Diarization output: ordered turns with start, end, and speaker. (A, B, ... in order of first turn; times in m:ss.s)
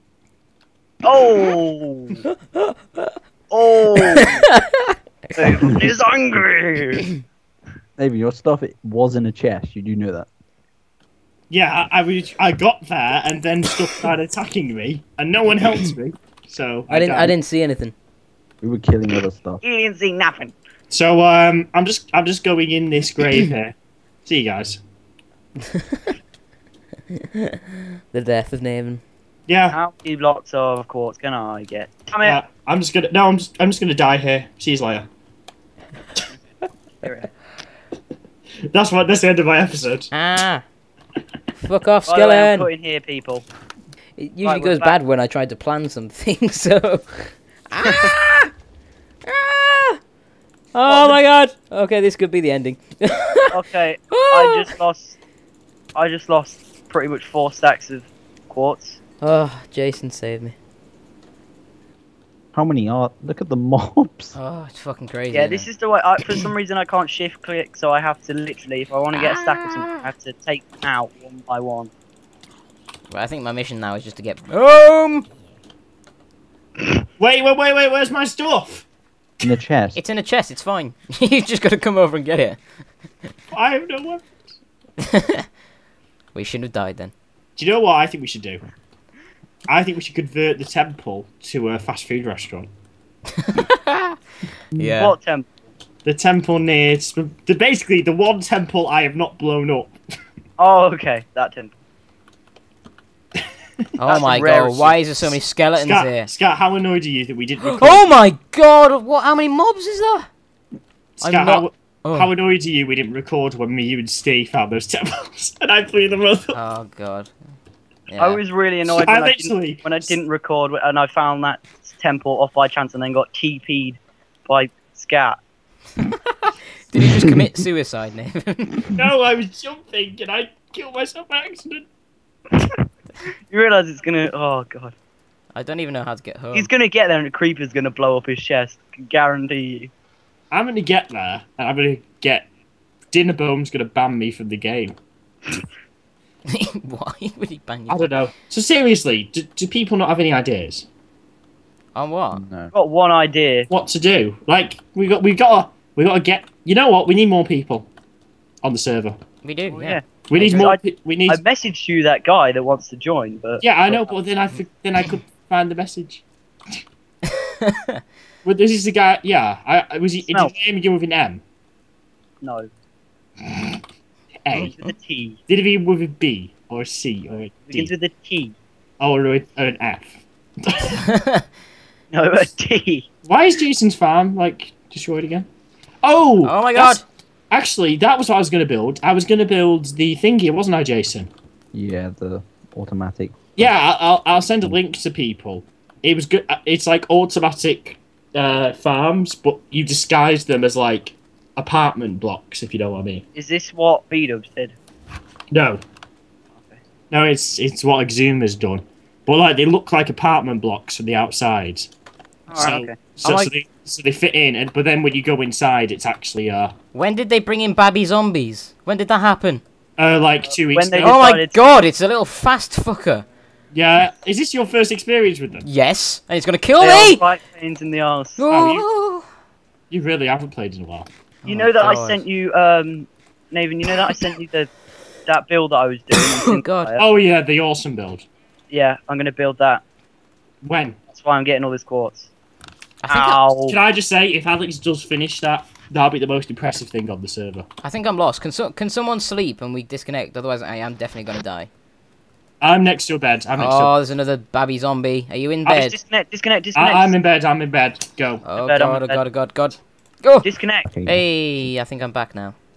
0:01.0-0:02.2 A
0:02.6-0:03.1 B
0:03.5-0:04.5 A
0:04.0-0:05.0 B
0:05.4-0:07.1 A
0:08.0-0:10.3 C
0:11.5-0:17.3 D
0:16.9-0:17.9 B
0:18.6-0:19.6 C
0:19.6-0:20.5 A
0:20.9-0:24.8 D
0:25.7-0:26.1 B
0:27.1-0:27.6 B
0:28.1-0:29.0 B
0:29.5-0:29.8 D
0:29.7-0:32.4 A
0:32.2-0:35.0 D
0:37.0-0:37.3 A
0:38.7-0:40.1 D
0:40.1-0:40.6 B
0:41.6-0:42.7 B
0:42.1-0:43.4 A
0:44.2-0:48.5 B
0:44.4-0:45.0 A
0:49.2-0:50.0 B
0:50.7-0:53.6 B
0:50.9-0:51.2 A
0:53.5-0:55.2 A
0:54.1-0:54.7 B
0:55.9-0:59.0 A
0:59.2-1:00.5 B
1:02.5-1:04.3 C
1:04.3-1:05.7 B
1:05.3-1:11.9 A
1:09.1-1:10.0 B
1:13.1-1:15.3 B
1:17.2-1:18.9 D
1:19.4-1:20.0 C
1:19.9-1:22.6 B
1:23.5-1:24.4 D
1:25.0-1:25.4 B
1:26.3-1:27.1 B
1:27.6-1:28.6 D
1:29.7-1:32.7 D
1:33.4-1:34.2 B
1:34.7-1:35.2 B
1:35.0-1:35.6 A
1:36.0-1:40.0 D
1:40.6-1:41.7 A
1:44.0-1:46.3 B
1:44.0-1:45.0 A
1:45.8-1:48.0 D
1:47.6-1:50.3 B
1:51.2-1:56.6 D
1:51.2-1:52.3 B
1:56.5-1:57.3 B
1:58.1-1:58.4 B
1:58.2-2:05.4 A
1:58.9-2:00.2 D
2:06.9-2:08.9 B
2:08.9-2:11.8 D
2:13.5-2:14.9 A
2:15.5-2:16.7 B
2:16.5-2:19.9 A
2:20.5-2:22.5 D
2:23.1-2:24.9 D
2:26.5-2:28.1 B
2:27.9-2:30.9 D
2:31.9-2:32.4 B
2:32.3-2:32.7 C
2:32.7-2:33.7 A
2:33.7-2:37.9 D
2:38.6-2:39.2 D
2:39.4-2:40.0 B
2:39.7-2:44.1 A
2:40.3-2:41.4 D
2:43.6-2:46.2 D
2:47.3-2:48.0 B
2:48.4-2:51.4 D
2:52.4-2:52.7 A
2:53.4-2:53.8 D
2:54.4-2:54.8 D
2:54.5-2:55.4 A
2:55.5-2:57.9 D
2:57.7-2:58.6 A
2:59.0-3:01.0 D
3:01.1-3:01.4 B
3:02.1-3:03.1 A
3:03.2-3:05.5 D
3:06.0-3:11.3 D
3:06.4-3:07.0 B
3:11.7-3:13.4 C
3:13.6-3:23.2 D
3:23.3-3:24.8 A
3:25.5-3:25.8 D
3:26.5-3:26.8 A
3:27.1-3:31.9 D
3:32.5-3:33.5 A
3:32.5-3:36.7 D
3:36.9-3:39.6 B
3:40.0-3:41.2 D
3:40.5-3:41.6 A
3:41.0-3:43.2 B
3:43.7-3:45.6 D
3:45.6-3:47.2 B
3:46.8-3:48.4 A
3:48.4-3:49.2 B
3:48.5-3:48.8 D
3:49.9-3:51.1 D
3:51.4-3:52.2 B
3:51.4-3:54.7 A
3:55.3-3:57.0 A
3:56.1-3:56.9 B
3:57.0-3:58.2 D
3:58.7-3:59.8 A
4:00.6-4:01.0 D
4:01.1-4:02.3 A
4:03.0-4:03.5 B
4:03.1-4:03.8 A
4:03.6-4:07.6 D
4:07.8-4:11.7 B
4:12.6-4:13.9 D
4:13.6-4:16.0 B
4:15.7-4:17.1 A
4:16.7-4:18.4 D
4:18.4-4:20.5 B
4:18.6-4:19.2 A
4:20.4-4:20.9 A
4:20.9-4:21.2 C
4:21.0-4:22.6 B